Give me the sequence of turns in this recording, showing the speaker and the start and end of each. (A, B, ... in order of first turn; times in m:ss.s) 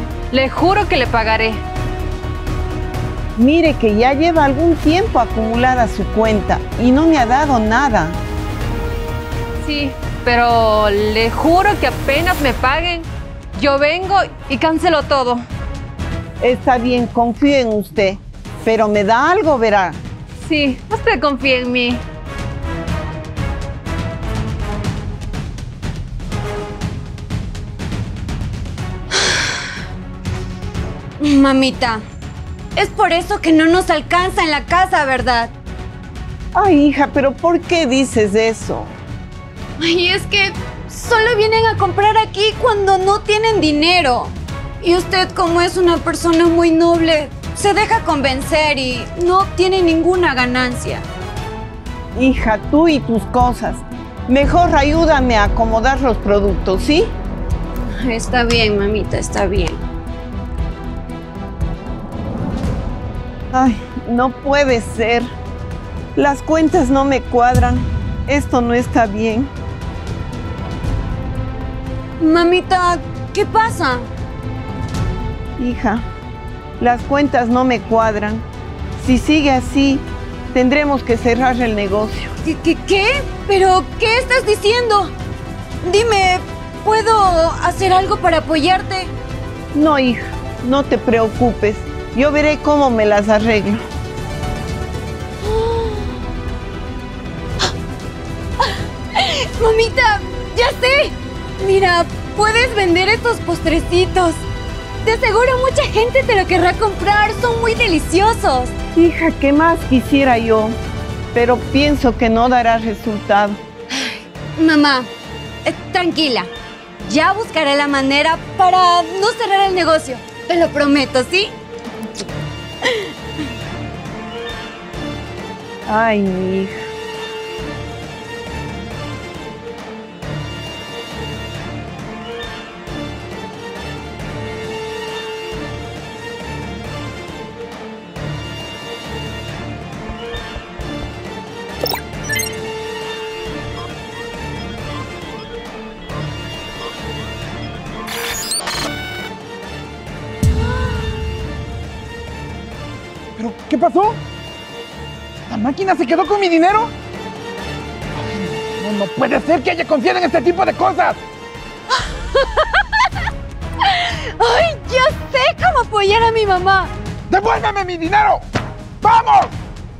0:00.3-0:01.6 A
0:03.4-0:08.2 B
0:09.6-0:15.4 A
0:16.4-0:20.0 B
0:20.4-0:22.0 A
0:31.2-0:32.0 C
0:32.8-0:35.5 C
0:36.5-0:38.9 B
0:39.8-0:51.0 C
0:52.1-0:57.1 B
0:57.9-0:59.8 C
1:03.5-1:05.3 B
1:06.2-1:09.5 B
1:12.2-1:14.1 C
1:15.6-1:16.0 B
1:16.8-1:18.4 B
1:19.0-1:22.3 B
1:22.4-1:25.1 C
1:25.8-1:29.1 C
1:29.7-1:33.8 B
1:35.4-1:36.1 C
1:39.1-1:44.4 C
1:45.0-1:48.7 C
1:49.0-1:50.8 B
1:51.3-1:53.6 B
1:53.9-1:55.1 C
1:55.6-2:01.5 C
2:05.9-2:06.7 B
2:33.4-2:34.2 D
2:35.5-2:36.9 D
2:38.3-2:41.2 D
2:42.3-2:42.7 C
2:43.8-2:46.9 C
2:47.3-2:48.4 D
2:49.0-2:49.5 D